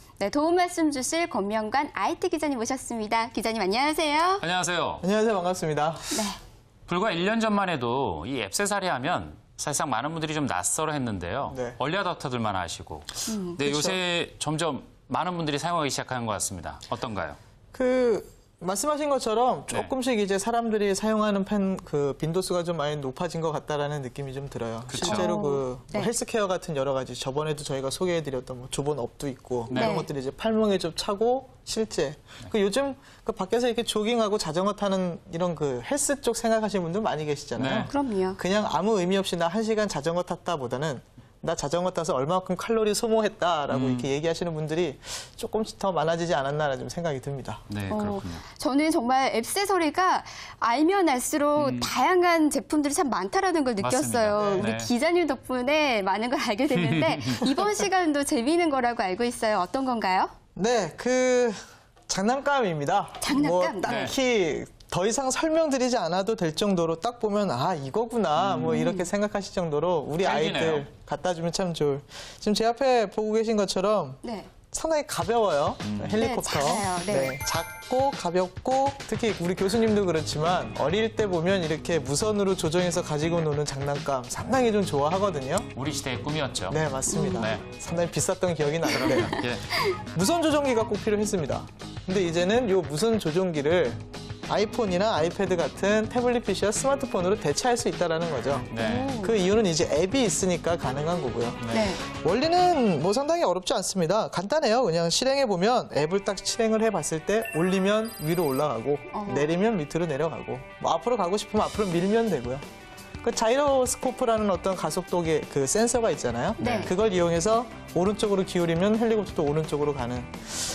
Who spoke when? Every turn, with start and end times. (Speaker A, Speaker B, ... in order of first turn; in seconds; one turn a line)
Speaker A: 0.2-4.4
Speaker B: 4.4-5.0
Speaker C: 5.0-6.1
Speaker A: 6.1-6.4
Speaker B: 6.9-17.4
Speaker C: 11.4-11.8
Speaker A: 13.3-13.6
Speaker C: 13.6-14.0
Speaker C: 17.7-47.6
Speaker B: 24.9-25.3
Speaker A: 25.0-26.1
Speaker B: 29.7-30.0
Speaker A: 29.7-30.1
Speaker B: 37.5-37.9
Speaker A: 37.8-38.4
Speaker B: 43.7-44.1
Speaker B: 47.7-48.4
Speaker A: 47.9-60.3
Speaker B: 51.6-51.9
Speaker B: 53.8-54.9
Speaker C: 54.4-54.7
Speaker B: 56.7-57.5
Speaker C: 60.5-61.6
Speaker C: 62.1-74.2
Speaker A: 63.2-64.1
Speaker B: 63.8-64.1
Speaker B: 68.3-68.9
Speaker A: 68.7-69.1
Speaker B: 70.2-70.9
Speaker A: 74.2-74.5
Speaker C: 74.7-85.7
Speaker B: 75.8-76.2
Speaker A: 76.2-77.4
Speaker B: 85.7-87.6
Speaker C: 86.7-89.4
Speaker A: 87.1-87.5
Speaker B: 88.9-89.7
Speaker A: 88.9-90.0
Speaker C: 89.9-112.6
Speaker B: 98.7-99.1
Speaker A: 98.8-99.4
Speaker B: 101.6-101.9
Speaker A: 101.7-102.0
Speaker A: 109.1-109.5
Speaker C: 113.2-120.6
Speaker A: 116.6-116.9
Speaker B: 116.6-116.9